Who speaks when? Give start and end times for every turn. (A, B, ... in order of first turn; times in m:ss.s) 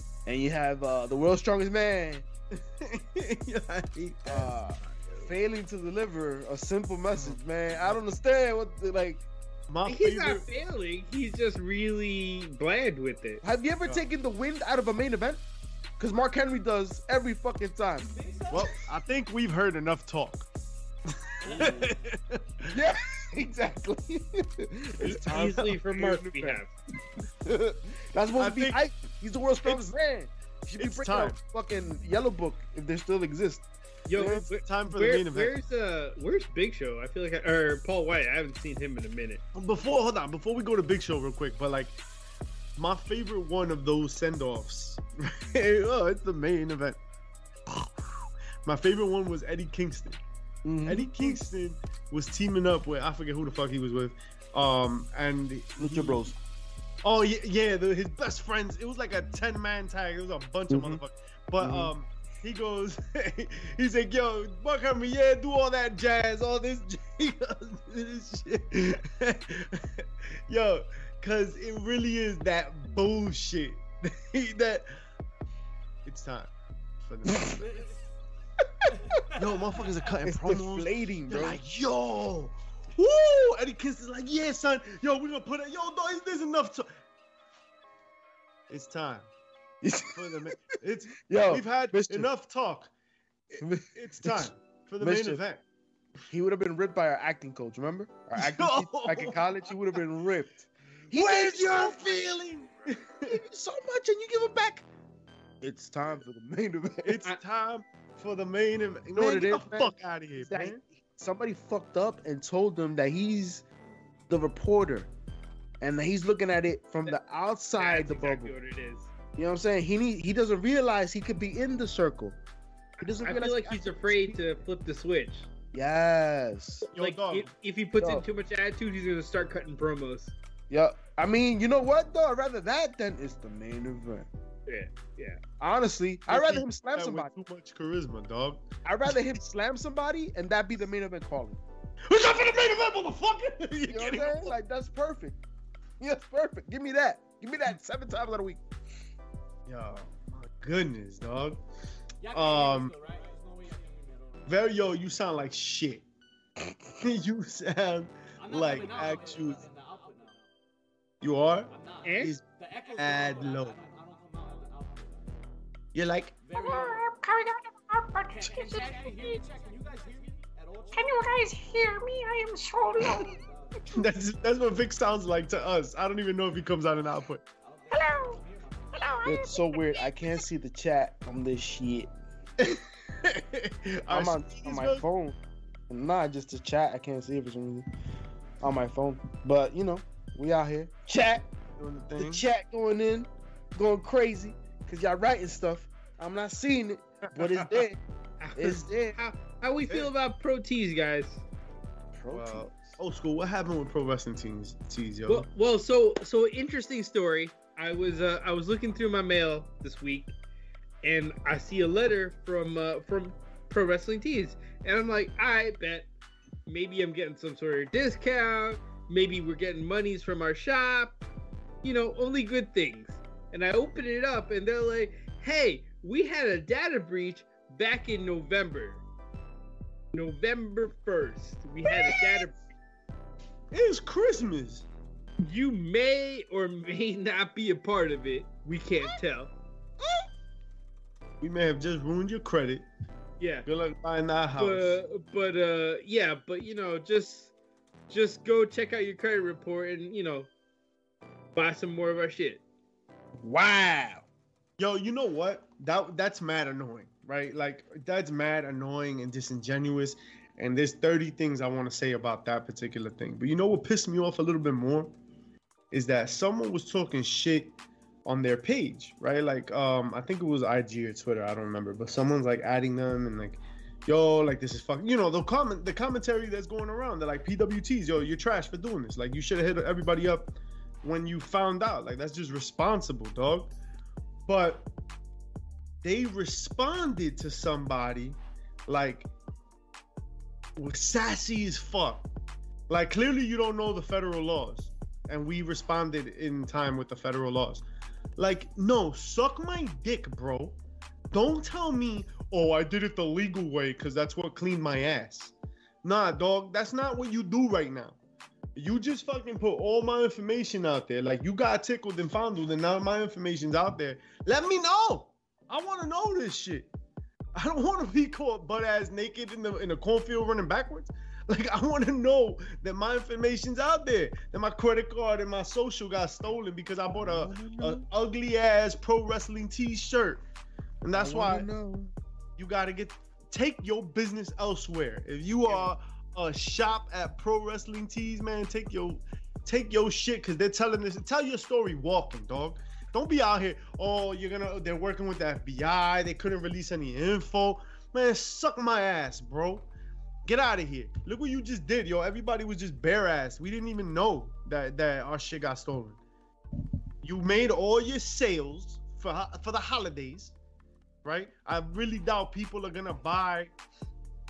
0:00.3-0:02.3 A
0:02.5-0:04.5 B
0:04.3-0:09.3 A
0:07.2-0:07.9 B
0:09.7-0:10.4 B
0:09.9-0:13.4 C
0:13.4-0:15.4 A
0:16.0-0:18.1 A
0:18.0-0:18.9 D
0:18.5-0:20.5 B
0:21.1-0:22.8 B
0:21.4-0:22.1 D
0:22.7-0:26.6 A
0:25.0-0:26.7 C
0:25.0-0:25.8 B
0:27.4-0:34.5 A
0:28.4-0:28.8 B
0:30.8-0:31.4 B
0:34.1-0:39.4 C
0:34.6-0:35.5 B
0:39.6-0:42.0 B
0:42.8-0:47.0 B
0:47.7-0:50.2 B
0:50.6-0:51.4 A
0:50.8-0:56.2 B
0:55.8-0:56.4 A
0:57.0-1:14.9 B
1:00.7-1:01.0 A
1:01.6-1:01.9 A
1:16.0-1:17.7 B
1:17.3-1:17.6 A
1:17.6-1:18.1 D
1:18.9-1:20.2 D
1:19.3-1:26.9 B
1:20.2-1:21.6 A
1:28.7-1:29.3 B
1:29.8-1:30.6 A
1:30.1-1:32.9 B
1:31.2-1:32.3 A
1:33.5-1:35.6 B
1:33.6-1:34.5 A
1:35.0-1:35.4 A
1:36.3-1:42.3 A
1:38.4-1:40.0 B
1:41.1-1:43.4 B
1:43.3-1:44.9 A
1:45.6-1:47.2 A
1:47.0-1:50.8 B
1:49.2-1:53.6 A
1:54.3-1:55.1 A
1:55.8-1:58.5 A
1:57.8-1:59.1 C
1:59.4-2:02.4 A
2:03.0-2:04.4 A
2:03.2-2:05.5 C
2:05.7-2:06.9 A
2:06.9-2:10.4 C
2:06.9-2:07.5 B
2:08.0-2:08.2 A
2:10.7-2:14.3 A
2:14.7-2:15.4 C
2:15.6-2:17.3 A
2:16.3-2:19.1 B
2:18.8-2:21.6 A
2:22.1-2:24.5 B
2:23.9-2:25.4 A
2:26.0-2:28.6 A
2:29.7-2:31.6 B
2:32.2-2:34.8 D
2:32.3-2:32.9 B
2:34.5-2:36.0 B
2:37.0-2:39.6 B
2:38.4-2:40.4 D
2:41.2-2:41.7 B
2:41.7-2:45.4 D
2:42.0-2:42.4 C
2:43.0-2:43.8 B
2:45.9-2:46.4 B
2:46.4-2:47.0 D
2:46.6-2:49.4 E
2:48.3-2:51.3 D
2:50.9-2:53.4 E
2:52.9-2:54.0 D
2:53.9-2:57.4 B
2:57.6-2:59.1 D
2:57.9-2:58.4 E
2:58.9-2:59.9 E
2:59.2-3:02.1 A
3:02.6-3:05.0 B
3:04.1-3:05.4 A
3:05.9-3:07.9 A
3:08.6-3:11.5 A
3:11.8-3:12.5 B
3:12.2-3:18.0 A
3:17.4-3:17.9 B
3:18.4-3:21.4 C
3:18.6-3:19.2 A
3:22.2-3:22.9 A
3:22.3-3:25.5 B
3:25.3-3:30.3 C
3:31.0-3:36.1 C
3:36.7-3:41.2 C
3:41.8-3:49.0 C
3:50.1-3:52.6 C
3:53.7-3:54.8 B
3:55.4-3:59.5 C
4:00.0-4:00.3 A
4:01.4-4:02.9 B
4:03.4-4:03.7 C
4:03.7-4:05.0 B
4:04.6-4:07.5 C
4:08.1-4:10.5 C
4:11.6-4:12.6 C
4:13.4-4:14.2 A
4:14.8-4:25.1 B
4:25.9-4:43.7 B
4:44.5-4:44.9 B
4:46.0-4:49.3 B
4:50.8-4:52.3 B
4:52.9-4:57.8 B
4:58.4-5:00.8 B
5:01.3-5:08.2 B
5:08.8-5:16.9 B
5:17.5-5:30.4 B
5:27.2-5:28.0 A
5:31.0-5:31.7 B
5:31.1-5:32.1 A
5:32.6-5:49.9 B
5:50.5-5:56.2 B
5:57.2-6:00.5 B
6:01.2-6:03.7 B